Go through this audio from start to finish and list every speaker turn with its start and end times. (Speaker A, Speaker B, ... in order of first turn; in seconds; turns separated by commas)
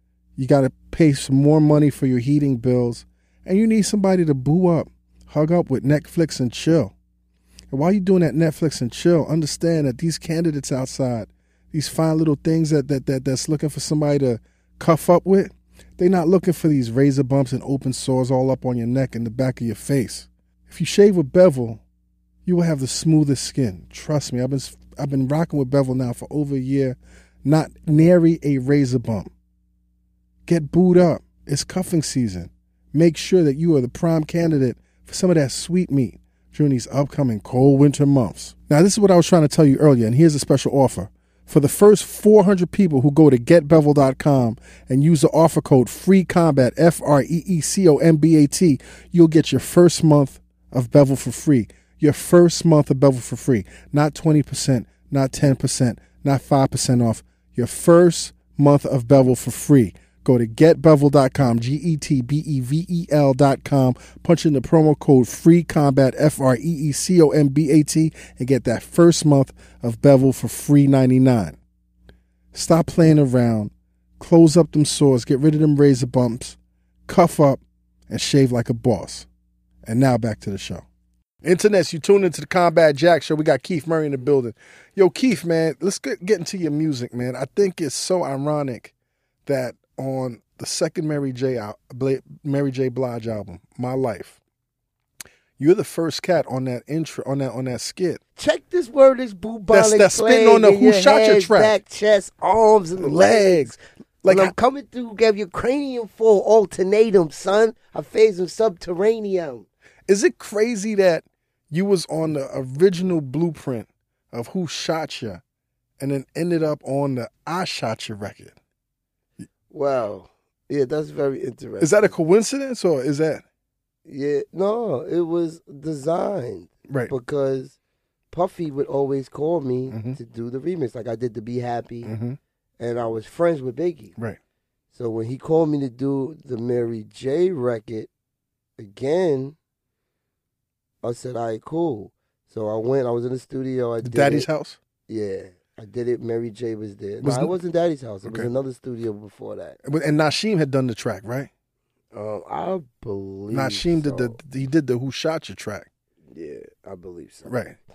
Speaker A: 0.4-6.9, Speaker A: 7.7-21.8, Speaker A: 22.4-29.3, Speaker A: 30.5-71.6, Speaker A: 72.5-79.3, Speaker A: 79.8-80.8, Speaker A: 81.4-88.9, Speaker A: 89.5-94.4, Speaker A: 95.6-98.2, Speaker B: 98.4-103.8, Speaker A: 99.7-101.7, Speaker A: 103.0-104.5, Speaker B: 104.3-109.7, Speaker A: 110.1-115.4, Speaker A: 116.0-118.5, Speaker B: 119.7-122.1, Speaker A: 121.8-123.4, Speaker B: 124.1-127.8, Speaker B: 128.3-132.1, Speaker A: 129.9-130.2, Speaker A: 132.1-132.4, Speaker B: 132.8-134.1, Speaker B: 134.9-138.1, Speaker B: 138.8-139.6, Speaker B: 141.0-144.5, Speaker A: 144.0-144.8, Speaker B: 145.1-149.8, Speaker A: 147.2-147.5, Speaker A: 148.2-148.5, Speaker A: 149.8-151.5, Speaker B: 152.1-154.4, Speaker A: 153.5-155.9, Speaker B: 156.3-157.5, Speaker A: 157.5-157.8